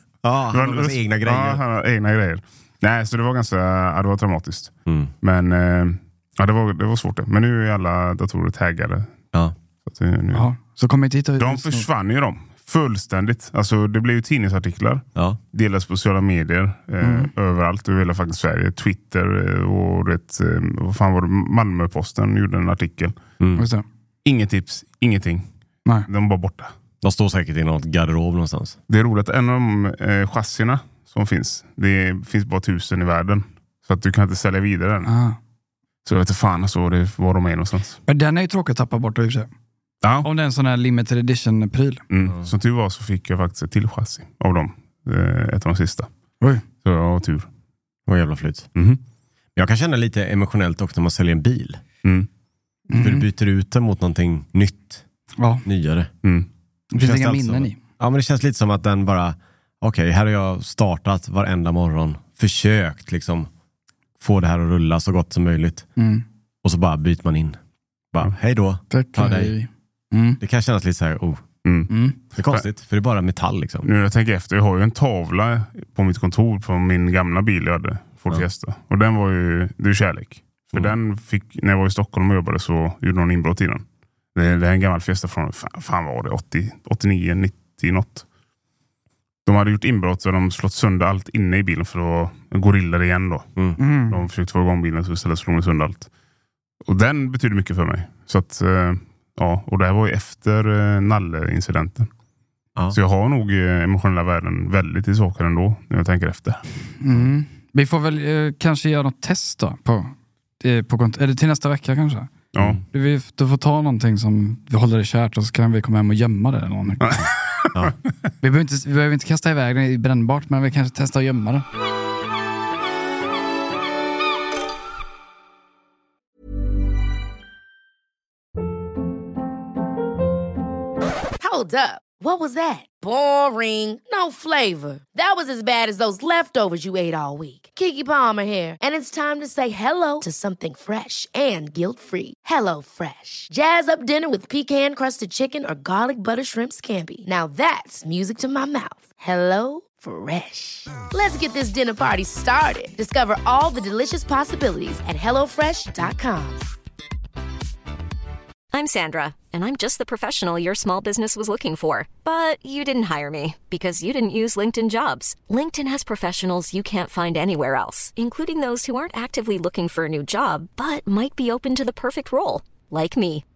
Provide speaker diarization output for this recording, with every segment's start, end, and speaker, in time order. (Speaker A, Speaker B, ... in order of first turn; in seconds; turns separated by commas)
Speaker A: 0.2-1.6, Speaker B: 0.5-9.1, Speaker B: 9.9-10.5, Speaker C: 10.3-11.9, Speaker B: 11.4-23.2, Speaker C: 17.0-17.3, Speaker A: 23.4-23.7, Speaker C: 23.6-23.8, Speaker B: 24.2-25.5, Speaker B: 26.1-26.7, Speaker A: 27.0-28.8, Speaker B: 28.9-35.1, Speaker C: 35.1-35.4, Speaker B: 36.0-38.0, Speaker C: 38.1-39.5, Speaker B: 40.0-40.3, Speaker C: 40.2-42.0, Speaker B: 42.1-46.1, Speaker B: 46.8-47.5, Speaker A: 48.1-48.7, Speaker B: 48.8-49.0, Speaker A: 49.6-51.8, Speaker C: 52.9-53.3, Speaker A: 53.0-55.0, Speaker C: 55.4-55.6, Speaker A: 55.6-56.1, Speaker C: 56.9-57.8, Speaker A: 57.0-63.5, Speaker A: 64.2-65.9, Speaker C: 66.0-66.2, Speaker A: 66.6-67.6, Speaker A: 68.1-69.5, Speaker C: 68.9-70.4, Speaker A: 70.4-71.5, Speaker B: 71.7-71.9, Speaker C: 71.9-72.2, Speaker A: 72.3-73.9, Speaker B: 73.8-83.8, Speaker B: 84.3-88.2, Speaker B: 89.5-93.5, Speaker C: 93.8-94.2, Speaker B: 94.1-96.1, Speaker B: 96.8-102.1, Speaker B: 102.9-106.6, Speaker C: 107.0-112.3, Speaker B: 112.5-112.8, Speaker C: 112.9-117.0, Speaker B: 117.0-117.8, Speaker C: 118.4-121.7, Speaker D: 131.4-156.6, Speaker E: 158.7-173.4